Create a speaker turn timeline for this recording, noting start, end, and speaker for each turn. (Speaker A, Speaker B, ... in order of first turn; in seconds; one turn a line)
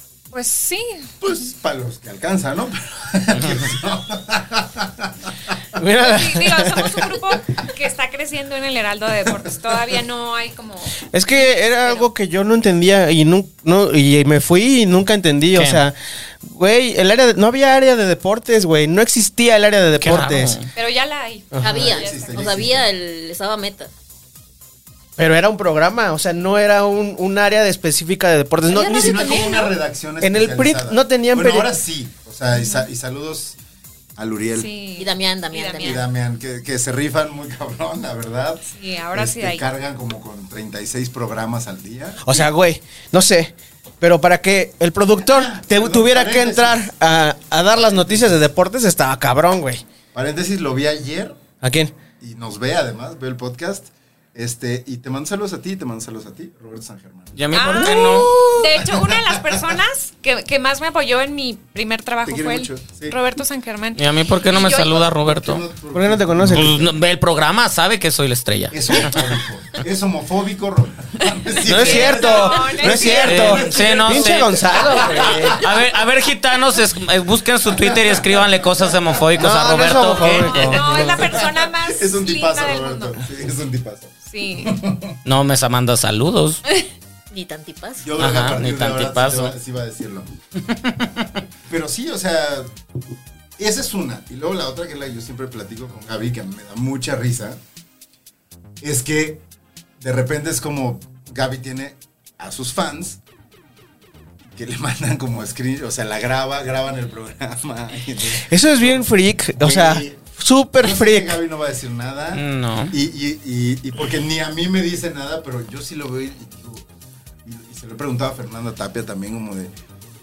Speaker A: 0.3-1.1
Speaker B: 1.2-5.6
Speaker C: 3.3-3.6
Speaker D: 5.8-7.2
Speaker A: 6.0-12.1
Speaker D: 11.1-20.6
Speaker C: 15.5-15.8
Speaker C: 20.0-20.7
Speaker A: 20.7-22.6
Speaker B: 21.6-22.9
Speaker E: 21.6-23.9
Speaker D: 25.2-29.5
Speaker E: 28.7-29.7
Speaker B: 28.8-33.6
Speaker A: 29.2-29.7
Speaker D: 30.2-31.7
Speaker A: 32.5-32.9
Speaker B: 34.1-34.8
Speaker A: 34.5-36.0
Speaker E: 35.0-36.0
Speaker B: 35.8-42.5
Speaker A: 38.7-39.6
Speaker D: 42.2-49.8
Speaker B: 45.2-46.9
Speaker B: 47.8-48.3
Speaker B: 50.1-51.4
Speaker D: 51.6-52.0
Speaker B: 52.2-59.6
Speaker C: 57.3-58.3
Speaker A: 57.5-65.1
Speaker B: 62.2-63.2
Speaker C: 64.0-65.6
Speaker B: 64.6-66.9
Speaker D: 65.9-66.8
Speaker C: 66.5-69.4
Speaker B: 68.7-75.7
Speaker D: 71.6-75.7
Speaker A: 71.7-73.8
Speaker C: 73.2-80.9
Speaker B: 77.7-79.2
Speaker D: 79.4-81.4
Speaker A: 80.4-83.2
Speaker B: 80.9-85.2
Speaker A: 84.2-84.8
Speaker C: 85.2-86.6
Speaker E: 87.3-88.1
Speaker B: 88.0-90.3
Speaker C: 88.2-89.5
Speaker C: 90.8-91.1
Speaker B: 91.7-92.7
Speaker B: 93.6-97.6
Speaker B: 98.8-99.4
Speaker B: 100.0-103.2
Speaker B: 104.5-109.1
Speaker D: 108.3-111.4
Speaker B: 109.6-110.3
Speaker B: 110.8-116.8
Speaker C: 112.3-112.9
Speaker B: 117.4-119.7